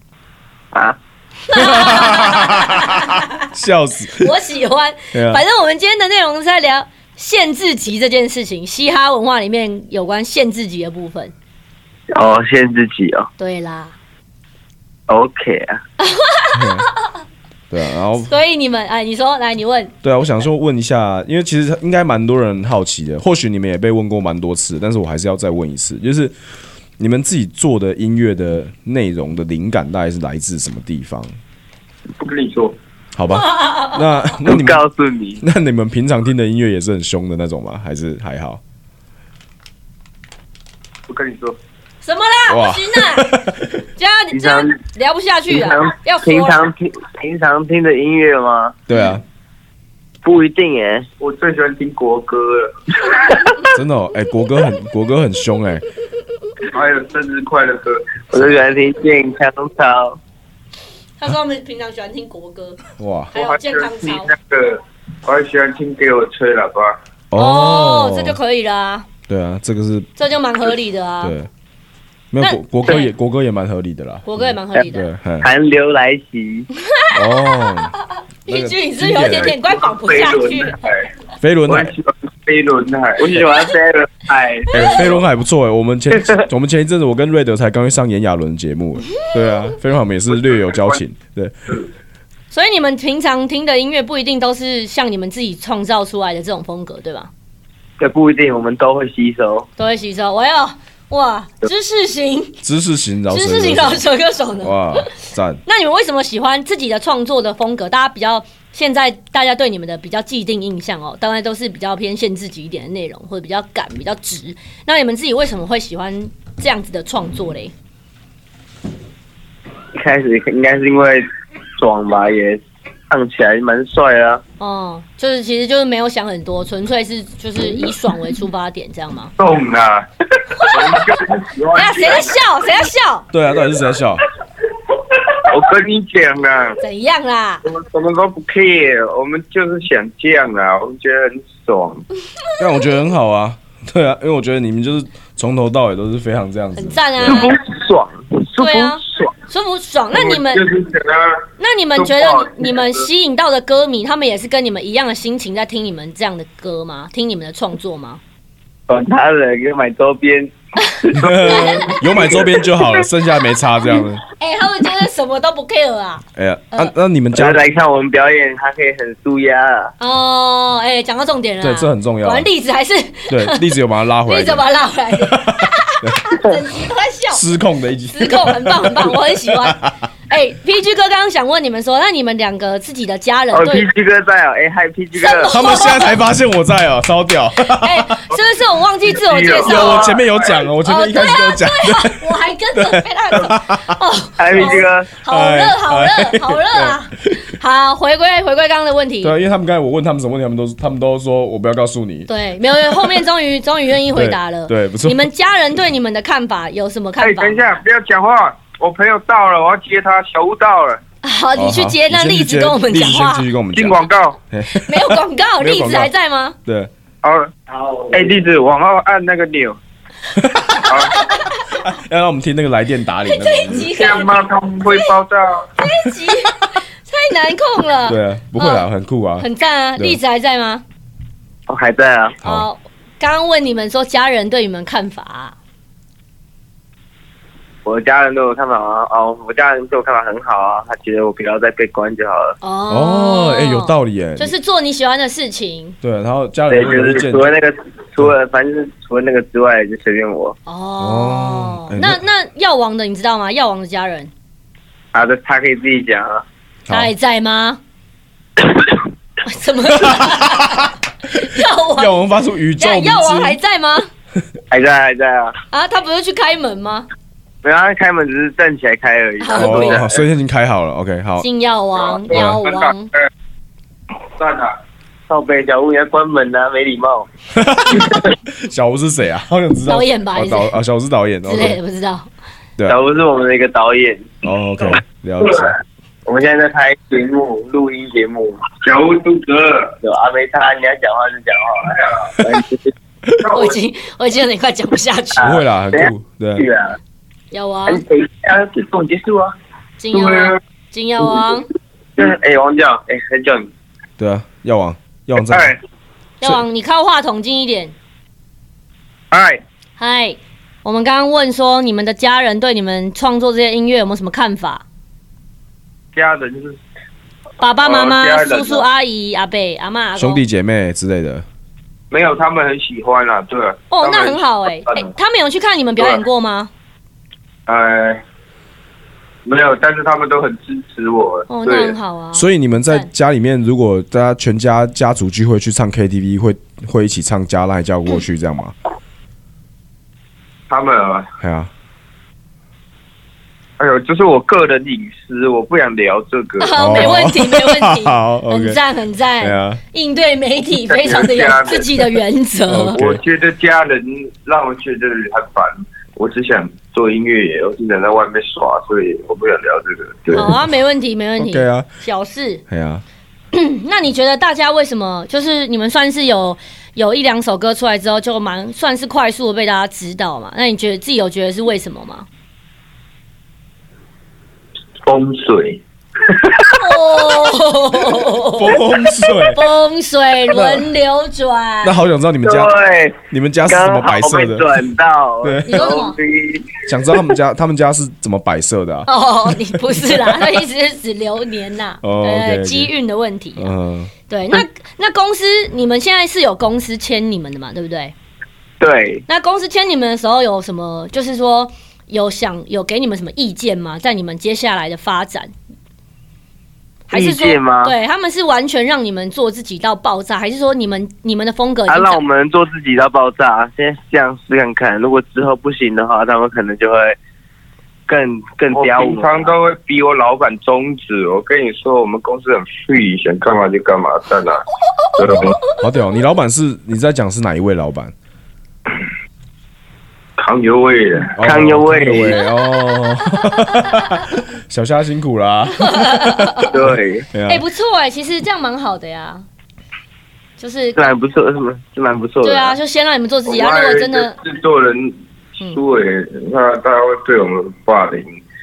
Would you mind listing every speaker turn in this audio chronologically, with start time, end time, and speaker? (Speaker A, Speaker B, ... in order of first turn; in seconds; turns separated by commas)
Speaker A: 0.7-1.0, Speaker B: 1.5-3.5, Speaker C: 1.5-4.3, Speaker B: 4.2-11.3, Speaker C: 5.1-5.4, Speaker A: 12.1-13.3, Speaker B: 13.4-13.9, Speaker A: 15.1-15.8, Speaker B: 16.0-17.1, Speaker C: 16.5-16.9, Speaker C: 17.7-18.3, Speaker B: 18.2-19.9, Speaker C: 20.0-26.3, Speaker C: 27.0-31.4, Speaker D: 32.2-32.8, Speaker C: 33.1-34.8, Speaker B: 33.3-34.0, Speaker A: 34.4-35.4, Speaker C: 35.4-38.6, Speaker D: 41.1-41.6, Speaker B: 42.0-43.4, Speaker C: 42.5-43.7, Speaker B: 43.9-46.6, Speaker A: 44.3-44.8, Speaker A: 45.5-48.8, Speaker C: 48.9-49.2, Speaker A: 50.2-51.1, Speaker D: 51.2-53.5, Speaker C: 53.7-55.9, Speaker D: 56.7-58.2, Speaker A: 58.3-60.2, Speaker B: 61.2-62.8, Speaker C: 63.0-63.3, Speaker B: 63.3-64.3, Speaker D: 63.3-67.0, Speaker C: 67.3-68.4, Speaker B: 67.3-69.1, Speaker C: 69.3-70.1, Speaker B: 70.2-71.3, Speaker C: 71.2-71.5, Speaker C: 72.3-75.5, Speaker B: 72.4-73.1, Speaker B: 74.2-75.1, Speaker A: 75.4-76.7, Speaker B: 76.8-80.8, Speaker C: 77.1-78.0, Speaker C: 78.5-79.6, Speaker D: 79.6-81.1, Speaker C: 81.4-81.9, Speaker D: 81.7-83.4, Speaker A: 83.2-85.1, Speaker C: 84.7-91.7, Speaker B: 92.5-97.3, Speaker A: 98.0-99.7, Speaker B: 99.8-102.6, Speaker C: 102.6-104.0, Speaker B: 103.3-105.1, Speaker C: 104.6-105.6, Speaker B: 105.6-117.7, Speaker A: 119.9-121.2, Speaker A: 121.8-124.4, Speaker B: 124.6-129.3, Speaker D: 129.4-132.4, Speaker B: 131.7-133.3, Speaker C: 133.3-134.2, Speaker D: 135.3-136.8, Speaker B: 136.8-137.6, Speaker D: 137.6-142.0, Speaker C: 142.6-147.5, Speaker B: 146.7-147.6, Speaker A: 147.2-149.3, Speaker B: 148.6-150.7, Speaker D: 150.1-151.4, Speaker B: 151.6-158.2, Speaker D: 152.0-153.0, Speaker A: 158.9-162.6, Speaker C: 161.1-164.2, Speaker B: 161.4-162.0, Speaker B: 164.4-166.9, Speaker C: 166.3-167.6, Speaker A: 167.3-169.9, Speaker B: 170.0-177.4, Speaker C: 171.6-172.5, Speaker C: 173.3-174.7, Speaker C: 175.2-176.2, Speaker C: 177.3-179.9, Speaker B: 178.1-183.9, Speaker A: 183.5-185.6, Speaker B: 185.2-186.2, Speaker C: 185.5-188.2, Speaker B: 187.7-190.2, Speaker D: 189.1-190.6, Speaker C: 189.6-194.0, Speaker B: 190.8-199.3, Speaker A: 194.4-195.1, Speaker C: 195.3-197.3, Speaker C: 199.2-203.2, Speaker B: 202.3-207.8, Speaker C: 204.1-205.3, Speaker D: 207.2-211.0, Speaker B: 211.2-213.5, Speaker C: 211.6-214.0, Speaker D: 213.7-214.4, Speaker C: 214.5-216.1, Speaker B: 214.7-216.6, Speaker C: 216.7-216.9, Speaker D: 217.2-218.5, Speaker A: 218.1-219.7, Speaker D: 219.1-219.6, Speaker C: 220.3-221.0, Speaker D: 220.9-221.2, Speaker B: 220.9-221.8, Speaker C: 221.8-223.9, Speaker B: 223.3-225.1, Speaker D: 223.9-225.7, Speaker B: 225.8-228.8, Speaker C: 228.1-230.2, Speaker B: 229.4-230.8, Speaker A: 231.7-232.4, Speaker C: 232.4-232.7, Speaker B: 232.4-235.6, Speaker A: 237.8-242.6, Speaker B: 242.6-245.9, Speaker C: 242.9-244.5, Speaker C: 246.0-247.5, Speaker A: 246.7-250.6, Speaker B: 250.7-254.3, Speaker C: 251.0-252.2, Speaker A: 255.1-256.4, Speaker B: 256.9-257.8, Speaker B: 259.4-262.2, Speaker C: 260.0-260.9, Speaker C: 261.9-263.6, Speaker B: 262.8-264.1, Speaker A: 264.7-265.5, Speaker B: 265.7-267.1, Speaker A: 267.6-270.2, Speaker B: 269.4-270.0, Speaker C: 269.5-271.5, Speaker B: 271.4-273.1, Speaker D: 272.0-273.3, Speaker C: 272.3-272.6, Speaker D: 274.4-274.8, Speaker A: 275.3-277.3, Speaker C: 277.5-281.8, Speaker B: 279.9-280.7, Speaker B: 281.4-282.3, Speaker A: 282.9-284.3, Speaker C: 284.4-285.7, Speaker A: 286.2-288.7, Speaker D: 288.8-289.9, Speaker A: 290.0-292.9, Speaker D: 293.4-293.7, Speaker B: 293.5-295.6, Speaker C: 295.4-296.6, Speaker A: 295.9-297.0, Speaker B: 297.5-298.0, Speaker A: 297.9-299.4, Speaker B: 300.0-301.7, Speaker D: 300.1-300.5, Speaker A: 302.2-303.7, Speaker C: 304.2-305.7, Speaker D: 305.5-305.8, Speaker B: 306.4-307.9, Speaker D: 309.3-309.6, Speaker B: 310.0-314.8, Speaker D: 316.1-316.8, Speaker B: 317.6-320.4, Speaker D: 317.8-318.8, Speaker C: 320.2-321.4, Speaker D: 322.1-325.1, Speaker B: 323.9-326.7, Speaker D: 327.7-328.2, Speaker D: 329.4-331.9, Speaker B: 331.5-333.1, Speaker C: 332.3-338.7, Speaker D: 340.7-341.3, Speaker C: 341.4-341.7, Speaker D: 343.8-347.2, Speaker B: 346.6-353.0, Speaker C: 346.8-348.8, Speaker C: 349.4-349.8, Speaker D: 350.9-352.1, Speaker C: 352.7-353.2, Speaker D: 352.9-360.5, Speaker B: 360.3-362.6, Speaker C: 361.4-361.9, Speaker C: 362.7-363.0, Speaker B: 363.5-372.3, Speaker D: 375.0-376.7, Speaker B: 376.7-378.8, Speaker C: 378.5-379.6, Speaker B: 379.5-381.9, Speaker C: 380.5-380.9, Speaker C: 381.8-382.7, Speaker A: 382.4-386.7, Speaker C: 383.3-384.8, Speaker C: 385.4-385.9, Speaker B: 385.6-386.2, Speaker C: 386.9-390.5, Speaker B: 389.1-393.7, Speaker C: 392.0-392.9, Speaker C: 393.6-394.1, Speaker B: 394.3-398.1, Speaker A: 398.8-399.2, Speaker B: 399.3-405.5, Speaker B: 407.1-412.2, Speaker A: 407.1-407.9, Speaker A: 411.9-417.2, Speaker A: 418.1-419.5, Speaker D: 418.7-424.6, Speaker D: 425.2-425.6, Speaker C: 425.2-428.1, Speaker D: 430.4-431.4, Speaker C: 431.4-437.6, Speaker A: 431.4-432.4, Speaker B: 435.8-436.7, Speaker A: 436.7-437.2, Speaker B: 437.5-439.4, Speaker B: 440.6-441.1, Speaker A: 440.9-442.8, Speaker B: 442.4-444.4, Speaker D: 443.4-448.4